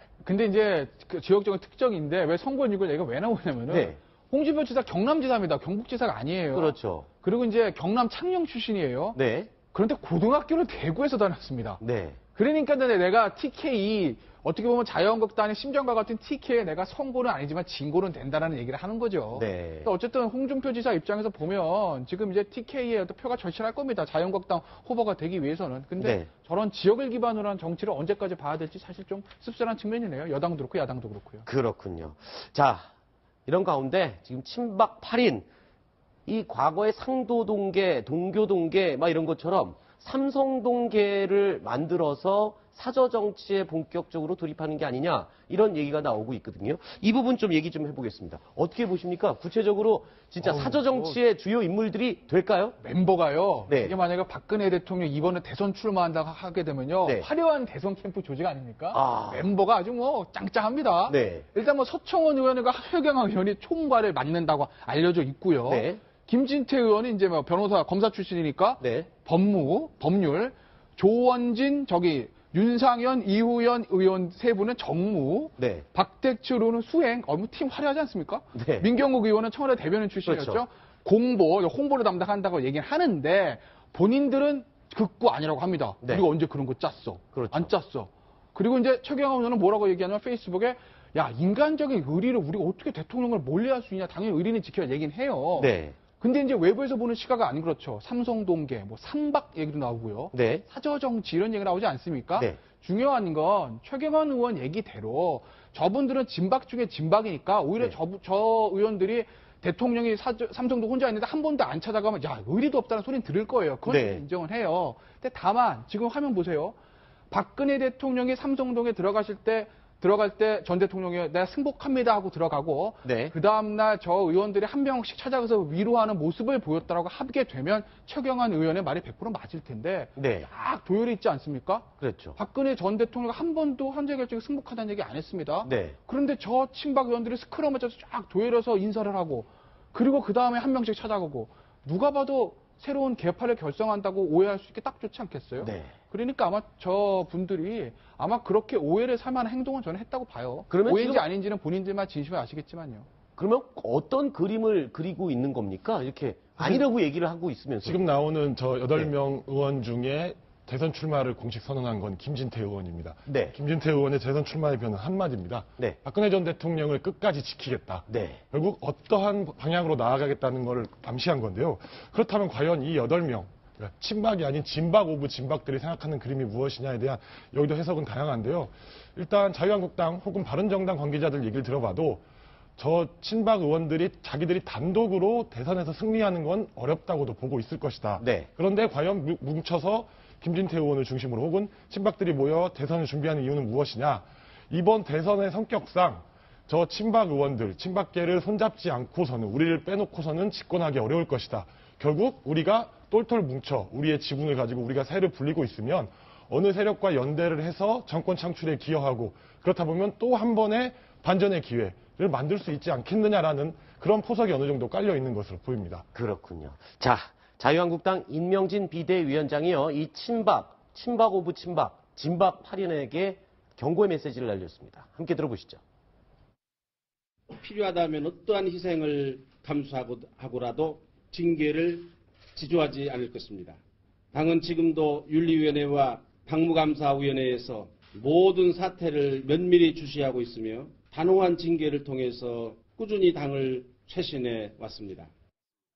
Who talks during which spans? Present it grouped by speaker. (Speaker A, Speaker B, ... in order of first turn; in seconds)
Speaker A: 0.2-11.8, 12.3-31.4, 50.4-51.2, 52.8-116.8, 117.3-153.1
Speaker B: 3.7-4.0, 6.5-7.1, 9.1-9.5, 11.8-12.2, 19.3-19.9, 26.0-26.3, 31.4-32.9, 33.5-35.5, 36.3-52.8, 53.7-53.9, 58.9-59.5, 61.1-61.5, 65.7-66.0, 68.8-69.1, 75.6-75.8, 78.5-78.9, 80.2-80.6, 87.3-87.7, 95.5-96.0, 100.3-100.6, 113.8-114.2, 123.0-123.3, 130.2-130.5, 132.0-132.4, 135.6-136.0, 145.6-145.9, 150.7-151.2, 153.4-158.1, 163.3-163.5, 168.1-168.4, 188.2-188.5, 216.1-225.8
Speaker C: 156.6-156.8, 157.8-182.2, 182.8-216.1
Speaker D: 227.5-233.8, 234.3-245.3